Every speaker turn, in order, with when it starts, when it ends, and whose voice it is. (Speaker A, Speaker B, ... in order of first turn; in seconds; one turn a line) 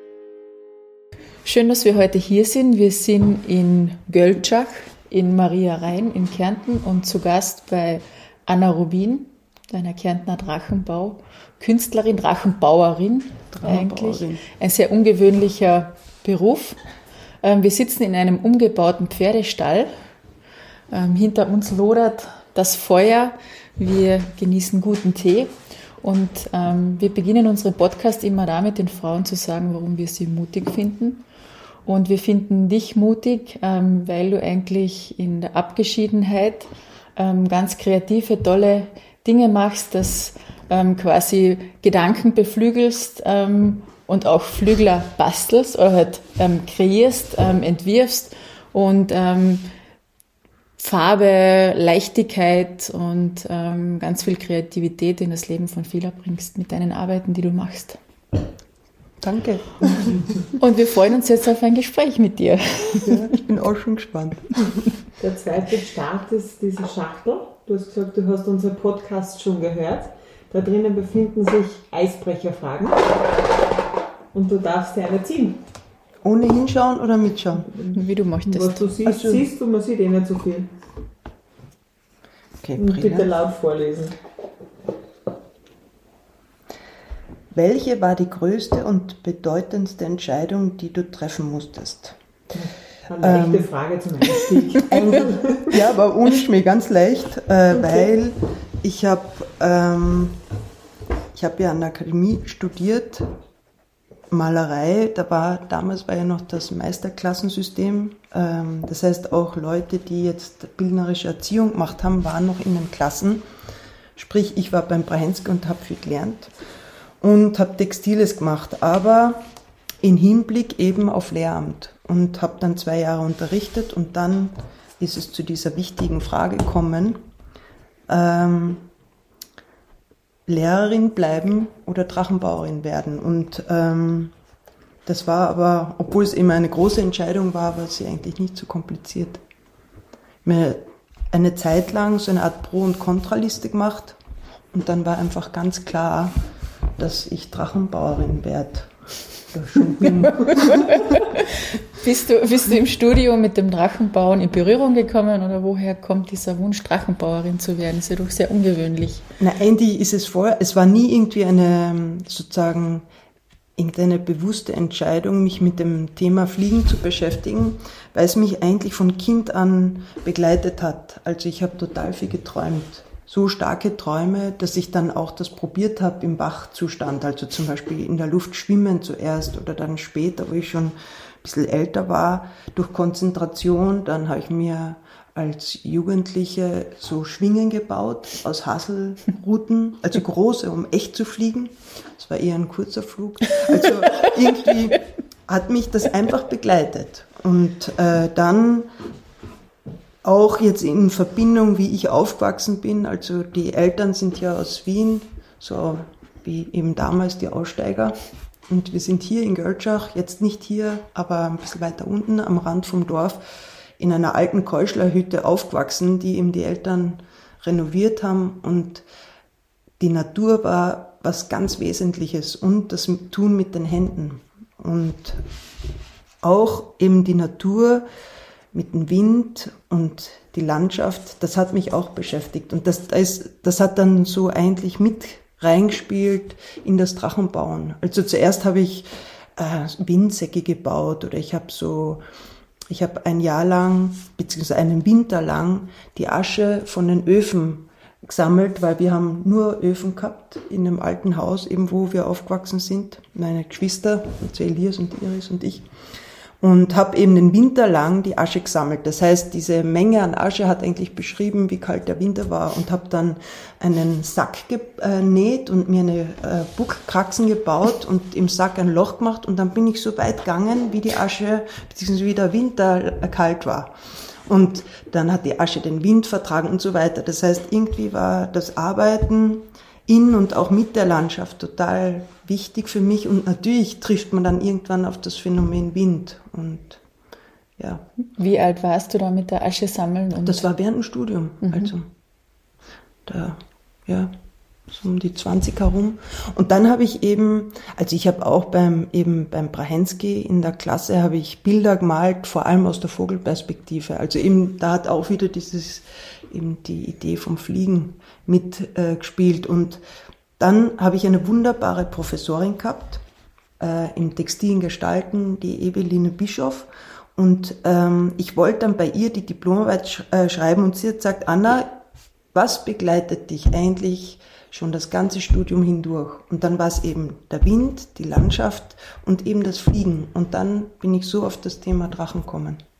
Speaker A: 1.4-16.8
Speaker B: 13.5-14.4
Speaker A: 17.4-19.9
Speaker A: 20.9-31.2
Speaker A: 31.8-49.7
Speaker A: 50.8-58.0
Speaker B: 59.2-60.2
Speaker A: 60.6-63.3
Speaker B: 63.0-64.5
Speaker C: 65.2-73.2
Speaker C: 74.3-75.6
Speaker B: 76.2-77.7
Speaker C: 77.7-80.7
Speaker A: 77.9-78.8
Speaker B: 79.0-79.5
Speaker B: 82.6-83.3
Speaker C: 82.8-84.2
Speaker B: 87.5-92.2
Speaker C: 92.5-95.8
Speaker B: 93.2-93.7
Speaker B: 94.8-100.4
Speaker B: 101.3-103.3
Speaker B: 104.3-113.4
Speaker B: 114.2-116.5
Speaker B: 117.2-119.4
Speaker B: 120.0-127.2
Speaker B: 128.1-128.8
Speaker B: 130.4-134.3
Speaker B: 135.1-139.4
Speaker B: 140.4-144.2
Speaker B: 144.7-146.3
Speaker B: 147.0-148.9
Speaker B: 149.5-150.8
Speaker A: 150.4-159.2
Speaker B: 159.4-163.1
Speaker B: 163.8-198.9
Speaker B: 200.2-208.2
Speaker B: 208.7-213.4
Speaker B: 214.0-219.0
Speaker B: 220.0-225.4
Speaker B: 226.4-228.0
Speaker B: 228.7-242.2
Speaker B: 242.9-255.9
Speaker B: 256.6-273.9
Speaker B: 274.5-287.0
Speaker B: 287.8-288.0
Speaker A: 288.4-290.6
Speaker B: 290.4-292.1
Speaker A: 291.6-291.9
Speaker B: 293.2-294.3
Speaker B: 294.9-310.0
Speaker B: 310.6-313.2
Speaker B: 313.8-322.0
Speaker B: 322.5-332.8